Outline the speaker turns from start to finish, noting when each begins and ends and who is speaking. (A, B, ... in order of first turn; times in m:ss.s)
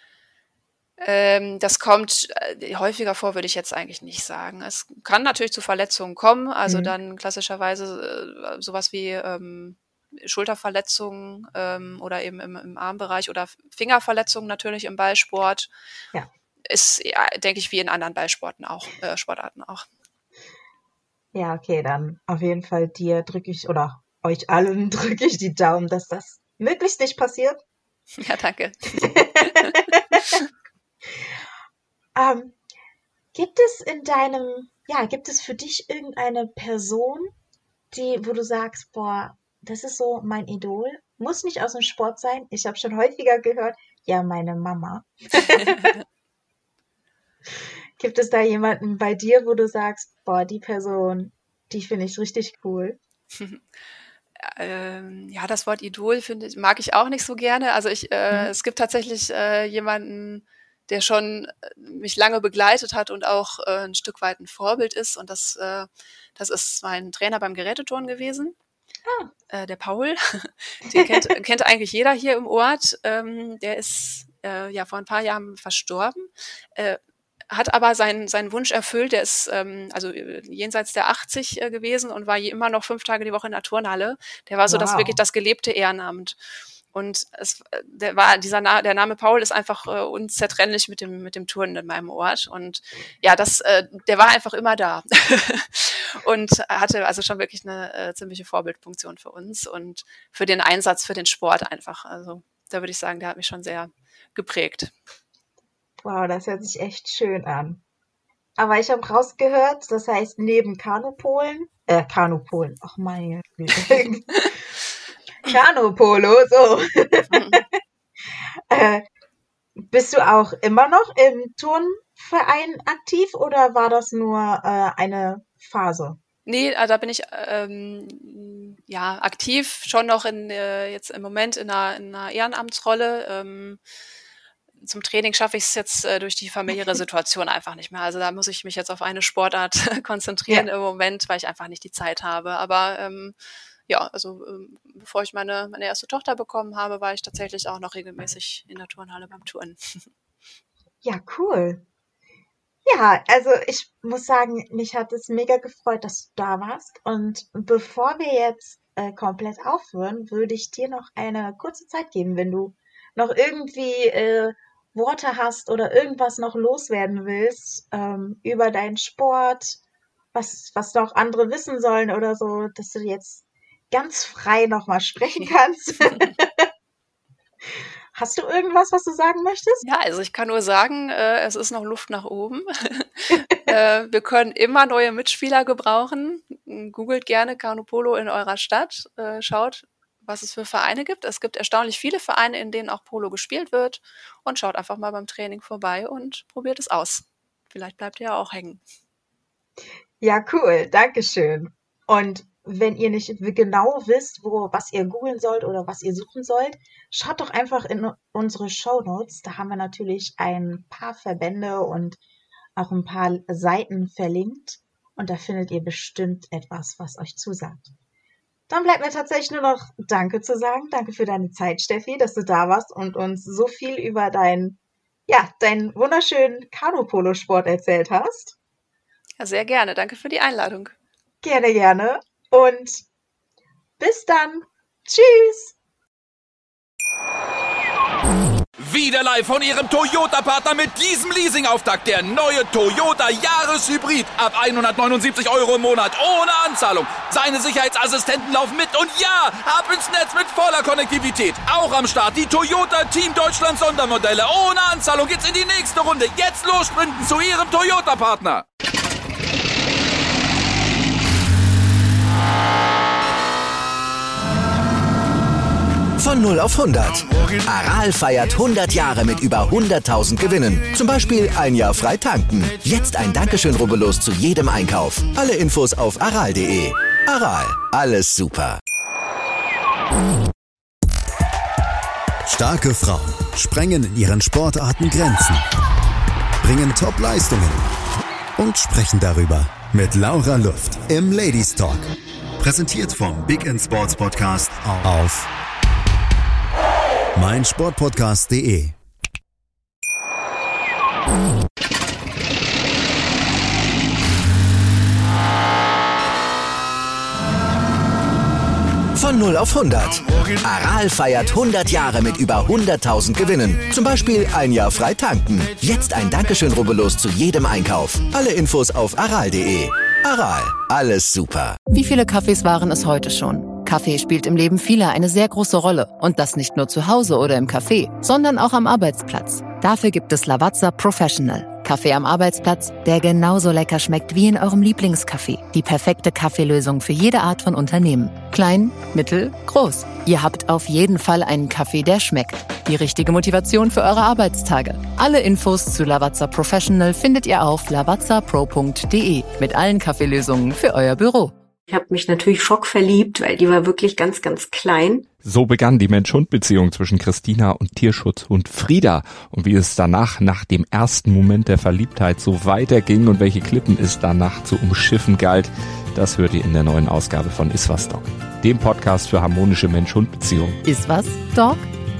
0:01.0-0:15.7 A
0:06.7-0:06.9 B
0:16.7-0:19.8 A
0:21.3-0:27.6 B
0:28.2-0:30.4 A
0:29.0-0:30.2 B
0:32.1-0:32.6 B
0:33.3-0:37.3 B
0:37.9-0:45.9 B
0:45.4-0:45.9 A
0:48.0-0:53.0 B
0:53.4-0:53.6 A
0:54.4-1:08.5 A
1:09.0-1:09.3 B
1:09.5-1:17.0 A
1:10.9-1:11.3 B
1:17.5-1:26.4 A
1:24.7-1:25.2 B
1:26.9-1:44.9 A
1:46.0-1:47.8 B
1:48.6-1:54.5 B
1:55.4-1:57.7 B
1:57.3-1:57.6 A
1:58.7-1:59.0 B
1:59.8-2:06.2 B
2:06.4-2:13.8 A
2:14.8-2:23.3 A
2:23.9-2:29.8 A
2:31.0-2:31.8 B
2:32.8-2:49.8 B
2:50.3-2:56.7 B
2:58.1-2:59.8 B
2:59.8-3:18.8 A
3:20.2-3:32.2 B
3:32.8-3:37.9 B
3:38.7-3:48.6 B
3:49.4-3:50.9 A
3:51.4-3:53.0 B
3:54.0-3:55.7 B
3:58.8-4:18.6 C
4:26.2-4:38.8 D
4:42.4-4:45.6 E
4:46.6-4:47.8 E
4:48.6-4:55.5 E
4:57.3-4:59.0 E
5:09.1-5:21.8 D
5:21.9-5:51.5 F
5:51.9-5:55.3 G
5:55.4-6:10.8 H
6:10.8-6:11.8 F